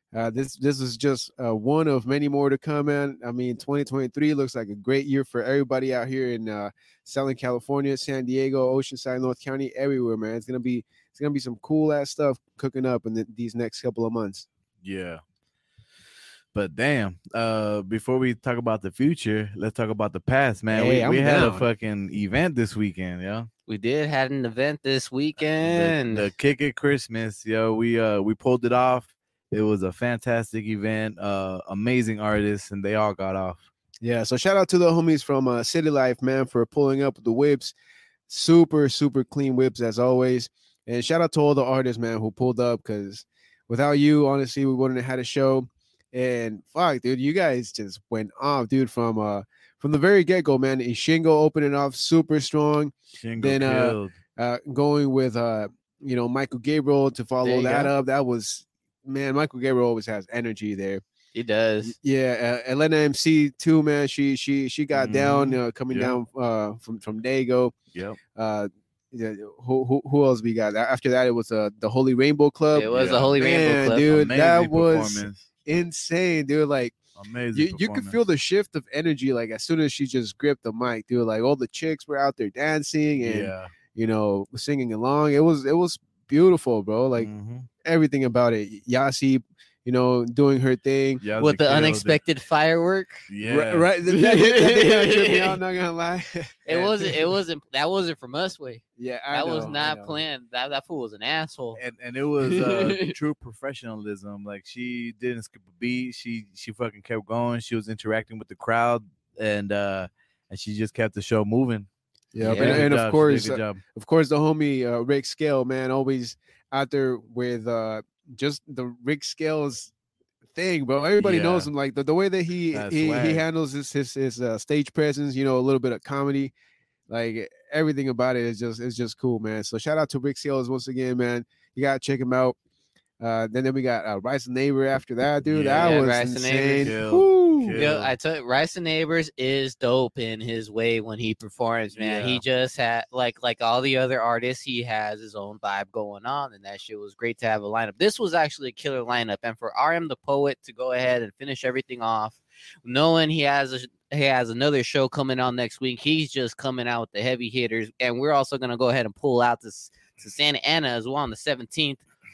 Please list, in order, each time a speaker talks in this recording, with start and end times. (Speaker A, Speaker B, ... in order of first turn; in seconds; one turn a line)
Speaker A: 0.1-14.4
Speaker B: 14.8-15.2
Speaker B: 16.5-23.5
Speaker A: 20.7-21.6
Speaker C: 23.7-26.3
Speaker B: 25.6-33.6
Speaker A: 34.0-37.7
Speaker A: 38.3-61.0
Speaker B: 53.1-54.1
Speaker C: 57.4-57.9
Speaker C: 61.3-61.9
Speaker A: 61.8-67.8
Speaker B: 64.9-66.2
Speaker B: 67.9-68.2
Speaker A: 68.3-77.0
Speaker C: 72.7-74.1
Speaker B: 72.9-73.4
Speaker B: 74.0-75.5
Speaker B: 77.2-78.2
Speaker A: 77.5-87.3
Speaker B: 83.2-83.7
Speaker B: 87.2-87.7
Speaker A: 87.8-91.2
Speaker B: 91.2-92.2
Speaker C: 91.4-93.3
Speaker B: 93.3-93.9
Speaker A: 93.4-97.3
Speaker C: 94.1-95.5
Speaker C: 96.7-101.8
Speaker A: 99.0-100.2
Speaker B: 101.7-111.9
Speaker C: 102.4-103.1
Speaker A: 112.3-119.9
Speaker C: 112.4-112.9
Speaker B: 112.4-113.8
Speaker A: 120.5-126.5
Speaker B: 121.2-121.7
Speaker B: 122.7-123.4
Speaker A: 127.1-132.6
Speaker A: 133.2-137.8
Speaker B: 135.4-136.1
Speaker C: 135.7-136.9
Speaker B: 136.8-138.1
Speaker C: 137.7-162.0
Speaker B: 141.9-142.4